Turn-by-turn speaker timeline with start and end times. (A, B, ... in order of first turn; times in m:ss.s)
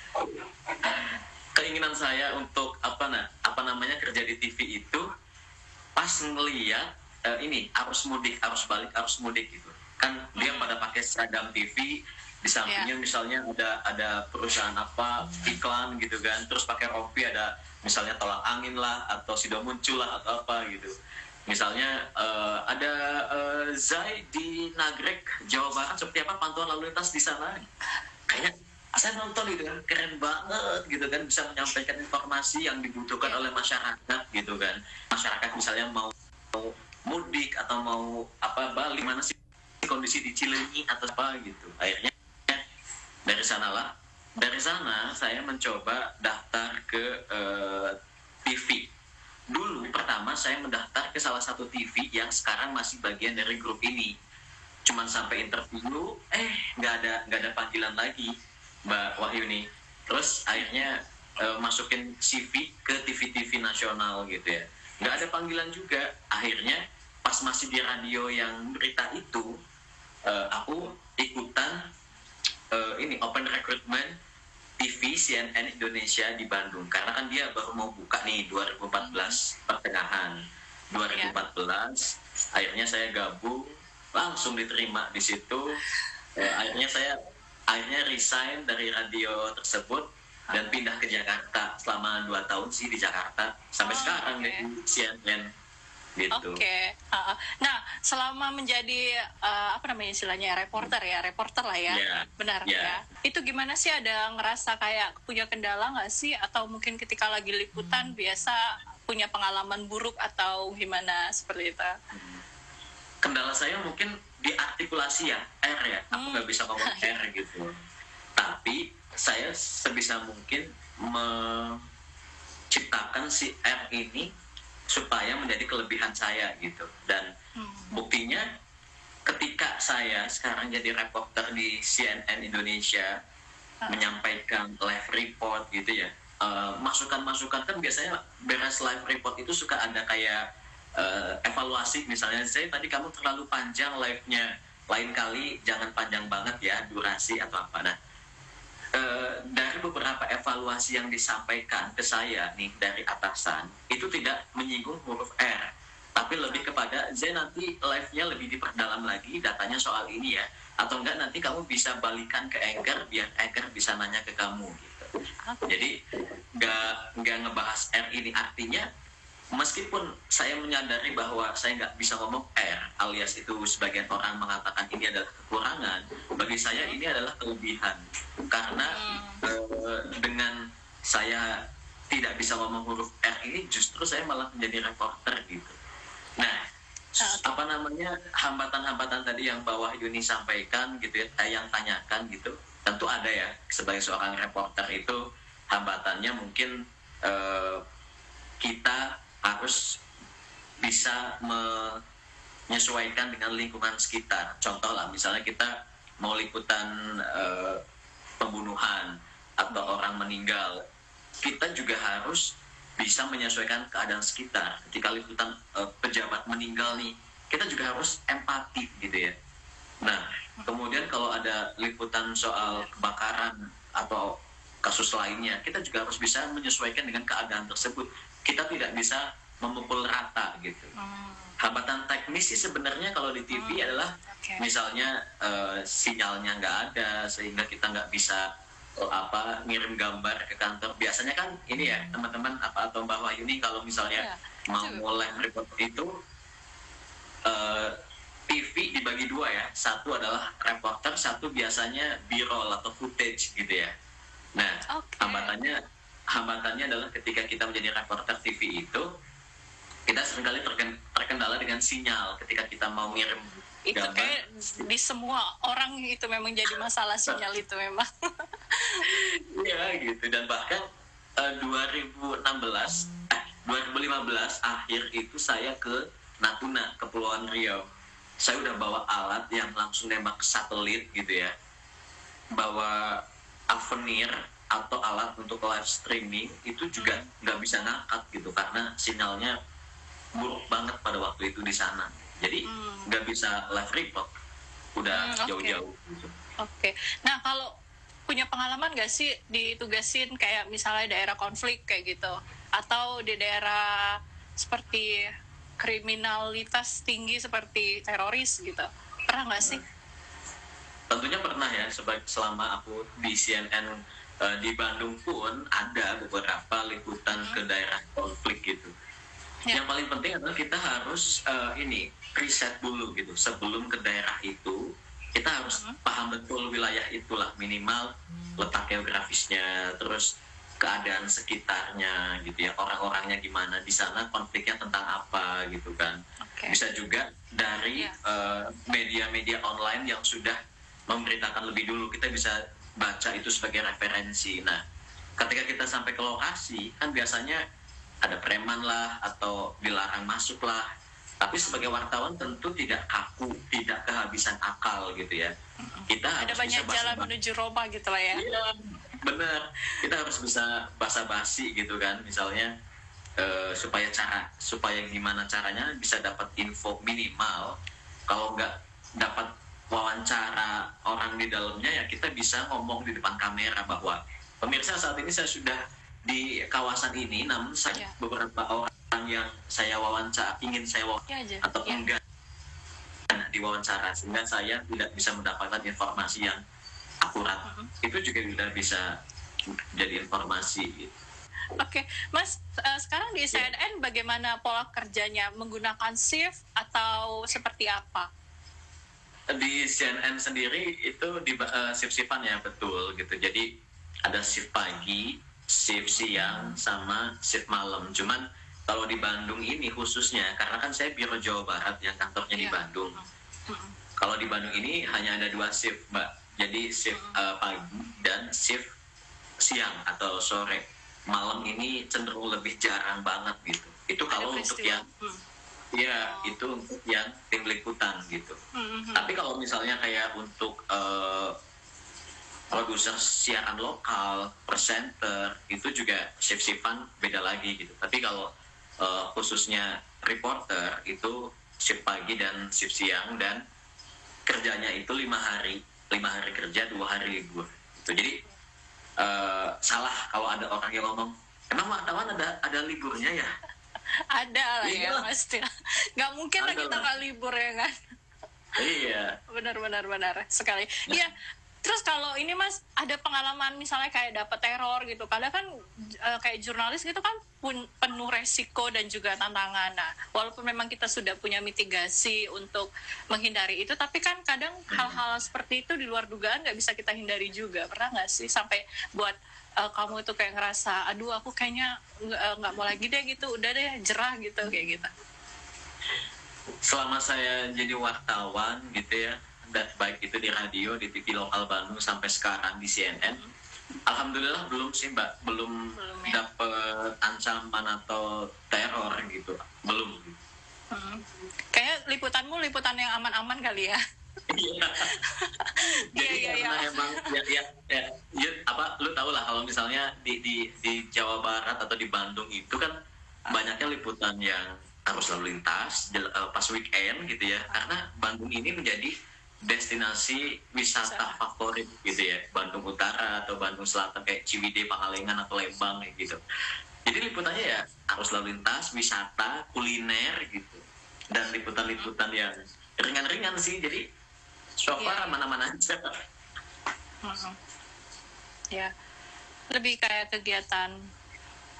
0:00.8-0:05.0 A
0:06.0-0:20.9 A
0:10.4-0:10.7 B
0:21.5-0:27.6 A
0:28.3-0:42.6 A
0:43.3-0:48.9 A
0:49.5-0:54.2 A
0:54.8-1:09.6 A
1:10.2-1:11.9 A
1:12.7-1:14.2 A
1:14.8-1:20.4 A
1:19.0-1:19.4 B
1:20.9-1:25.8 A
1:26.4-1:27.2 A
1:27.7-1:35.5 A
1:30.5-1:30.8 B
1:33.8-1:34.6 B
1:36.2-1:36.6 A
1:36.3-1:51.9 B
1:41.9-1:43.0 A
1:52.1-1:52.4 A
1:53.2-1:57.7 A
1:56.1-1:57.1 B
1:58.4-2:01.8 A
2:02.7-2:04.3 A
2:04.9-2:07.3 A
2:07.6-2:08.0 B
2:07.9-2:08.4 A
2:09.2-2:13.2 A
2:13.8-2:14.1 B
2:13.9-2:20.4 A
2:21.0-2:27.9 A
2:28.9-2:45.1 A
2:45.4-2:45.9 B
2:45.7-2:46.0 A
2:46.6-2:48.9 A
2:49.5-3:05.7 A
2:58.8-2:59.4 B
3:07.2-3:07.6 B
3:07.3-3:15.2 A
3:15.7-3:17.8 A
3:18.6-3:19.8 A
3:20.8-3:22.0 A
3:22.7-3:27.8 A
3:28.4-3:30.8 A
3:29.7-3:30.0 B
3:31.4-3:39.3 A
3:40.0-3:50.9 A
3:40.6-3:40.9 B
3:42.6-3:42.9 B
3:51.0-3:51.6 B
3:51.6-4:06.1 A
3:53.5-3:54.6 B
4:04.2-4:05.0 B
4:07.4-4:07.9 A
4:08.5-4:13.9 A
4:14.6-4:15.8 A
4:14.9-4:15.6 B
4:16.3-4:19.0 A
4:20.1-4:24.4 A
4:23.9-4:29.1 B
4:29.0-4:30.8 A
4:31.4-4:37.9 A
4:38.4-4:41.5 A
4:42.5-4:49.5 A
4:47.0-4:47.3 B
4:50.3-4:54.3 A
4:52.6-4:53.1 B
4:55.0-4:56.3 A
4:55.1-4:55.8 B
4:56.6-4:57.7 B
4:58.3-5:09.8 B
5:11.1-5:18.9 A
5:19.7-5:30.3 A
5:25.7-5:26.0 B
5:30.8-5:40.6 A
5:36.4-5:36.8 B
5:41.1-5:44.8 A
5:45.4-5:47.6 A
5:48.2-5:50.9 A
5:51.4-5:55.5 A
5:51.6-5:51.9 B
5:55.8-5:58.4 B
5:56.1-5:57.3 A
5:58.3-6:02.7 A
6:03.4-6:07.8 A
6:08.3-6:22.2 A
6:17.9-6:18.2 B
6:21.3-6:22.0 B
6:23.3-6:26.6 A
6:27.2-6:29.1 A
6:27.6-6:27.9 B
6:30.0-6:31.1 A
6:31.8-6:38.3 B
6:39.5-6:43.7 A
6:44.2-6:53.2 A
6:52.5-6:54.0 B
6:54.2-6:58.8 A
6:57.1-6:57.4 B
6:59.6-7:05.0 A
7:04.3-7:05.4 B
7:05.9-7:08.6 A
7:06.2-7:06.5 B
7:08.7-7:09.3 B
7:09.1-7:11.6 A
7:12.7-7:23.6 A
7:24.4-7:28.4 A
7:29.2-7:33.5 A
7:34.3-7:37.9 B
7:34.8-7:35.2 A
7:36.6-7:37.1 A
7:38.8-7:39.4 A
7:39.5-7:45.6 B
7:46.2-8:05.1 B
7:54.9-7:55.2 A
8:06.8-8:13.4 A
8:13.2-8:13.5 B
8:14.1-8:20.4 A
8:15.9-8:16.4 B
8:20.9-8:21.2 B
8:21.7-8:24.0 B
8:24.5-8:25.1 A
8:25.0-8:27.4 B
8:26.1-8:32.9 A
8:33.5-8:39.1 A
8:39.6-8:46.4 A
8:41.0-8:41.4 B
8:47.0-8:54.1 A
8:54.8-8:56.2 A
8:55.0-8:55.4 B
8:57.2-8:57.6 B
8:59.7-9:00.9 B